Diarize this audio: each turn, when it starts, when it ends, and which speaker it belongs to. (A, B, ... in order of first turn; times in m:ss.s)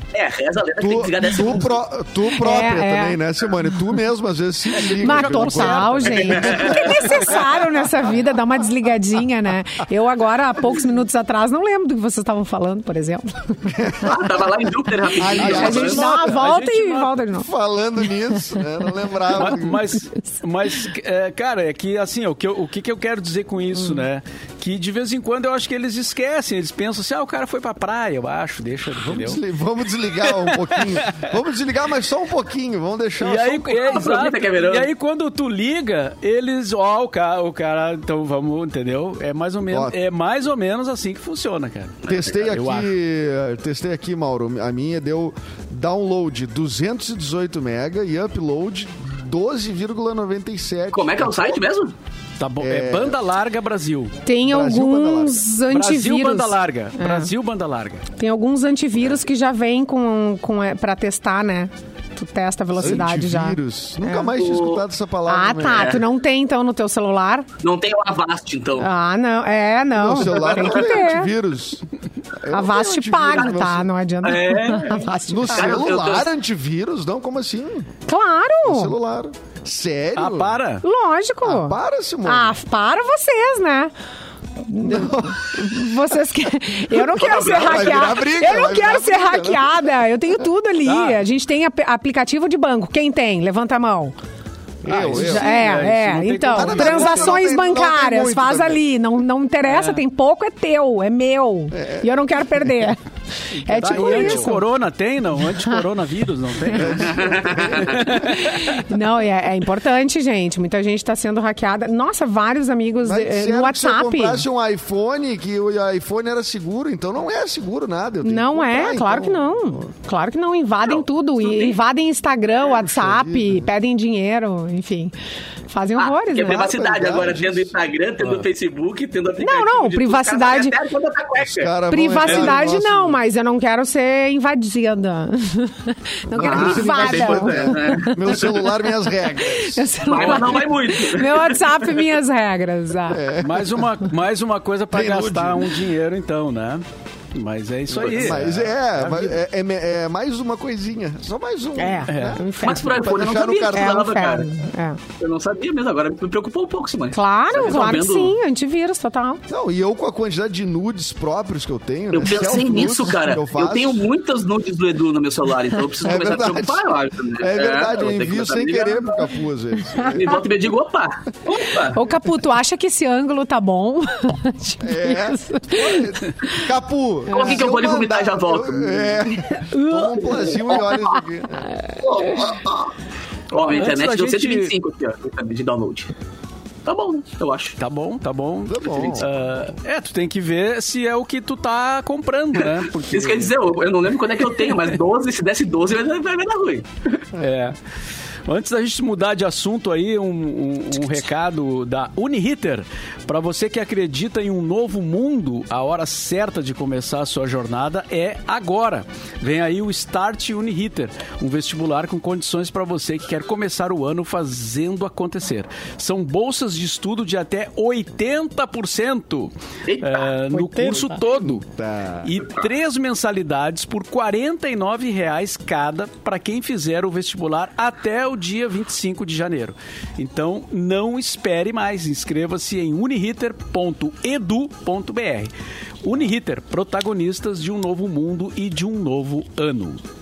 0:00.1-0:01.8 A
0:00.8-0:06.8 B
0:02.3-0:03.2 C
0:04.8-0:14.1 C
0:04.9-0:07.4 D
0:06.4-0:07.0 A
0:13.7-0:14.3 B
0:14.0-0:16.0 A
0:15.2-0:16.2 B
0:15.3-0:17.1 D
0:15.4-0:17.5 C
0:17.4-0:19.9 B
0:19.3-0:29.4 D
0:29.0-0:33.9 B
0:30.2-0:31.3 D
0:33.2-0:42.9 D
0:33.8-0:34.9 A
0:39.7-0:40.0 B
0:42.0-0:42.4 A
0:42.1-0:51.6 B
0:50.9-0:51.9 A
0:52.4-0:54.2 D
0:52.6-0:53.2 B
0:54.2-0:57.3 C
0:54.4-0:55.4 B
0:55.7-0:58.0 D
0:58.2-1:04.3 C
1:02.8-1:06.0 B
1:04.4-1:04.8 A
1:05.3-1:07.5 C
1:05.7-1:06.0 A
1:07.6-1:08.9 A
1:08.8-1:11.3 C
1:10.0-1:13.9 B
1:10.3-1:11.0 A
1:12.5-1:15.9 C
1:13.3-1:13.6 A
1:14.2-1:16.3 A
1:15.3-1:17.9 B
1:18.1-1:19.0 C
1:18.6-1:20.6 B
1:20.2-1:20.8 D
1:20.8-1:23.9 C
1:21.4-1:22.6 B
1:24.6-1:34.2 C
1:24.8-1:26.0 B
1:27.0-1:28.2 A
1:27.5-1:29.8 B
1:30.9-1:31.2 D
1:34.8-1:35.8 B
1:34.9-1:37.4 D
1:35.0-1:43.0 C
1:36.5-1:38.8 B
1:39.7-1:40.0 D
1:41.7-1:42.1 B
1:43.6-1:44.6 C
1:43.6-1:48.8 D
1:44.0-1:44.3 B
1:46.7-1:48.3 B
1:47.0-1:48.1 A
1:48.2-1:54.4 C
1:53.0-1:59.9 B
1:58.2-2:05.1 C
2:00.8-2:01.8 A
2:02.8-2:03.7 B
2:05.7-2:06.7 C
2:06.0-2:11.7 A
2:06.5-2:07.8 B
2:08.2-2:08.5 D
2:09.4-2:10.8 C
2:11.4-2:13.2 B
2:11.9-2:23.3 C
2:16.3-2:20.6 B
2:16.4-2:18.6 A
2:20.1-2:22.0 A
2:23.1-2:23.9 B
2:23.4-2:29.4 D
2:24.9-2:25.8 B
2:27.9-2:34.1 B
2:27.9-2:28.4 A
2:31.8-2:33.1 C
2:32.1-2:32.4 D
2:32.6-2:34.5 A
2:33.7-2:35.0 C
2:35.2-2:38.4 A
2:37.1-2:39.4 C
2:39.5-2:44.1 B
2:42.1-2:49.3 A
2:46.0-2:50.4 B
2:50.0-2:50.3 C
2:50.0-2:52.0 A
2:51.9-2:56.7 C
2:54.8-3:01.8 B
2:57.3-2:59.3 A
2:59.5-3:00.9 C
3:00.7-3:01.2 A
3:02.0-3:02.9 A
3:03.5-3:06.1 A
3:03.6-3:04.7 D
3:06.8-3:07.8 A
3:07.8-3:13.6 D
3:08.7-3:09.3 B
3:13.1-3:17.2 A
3:14.5-3:15.0 D
3:17.4-3:17.8 D
3:18.5-3:41.6 D
3:39.9-3:40.3 A
3:40.5-3:41.2 C
3:40.8-3:42.4 B
3:42.2-3:55.5 D
3:56.0-4:00.0 D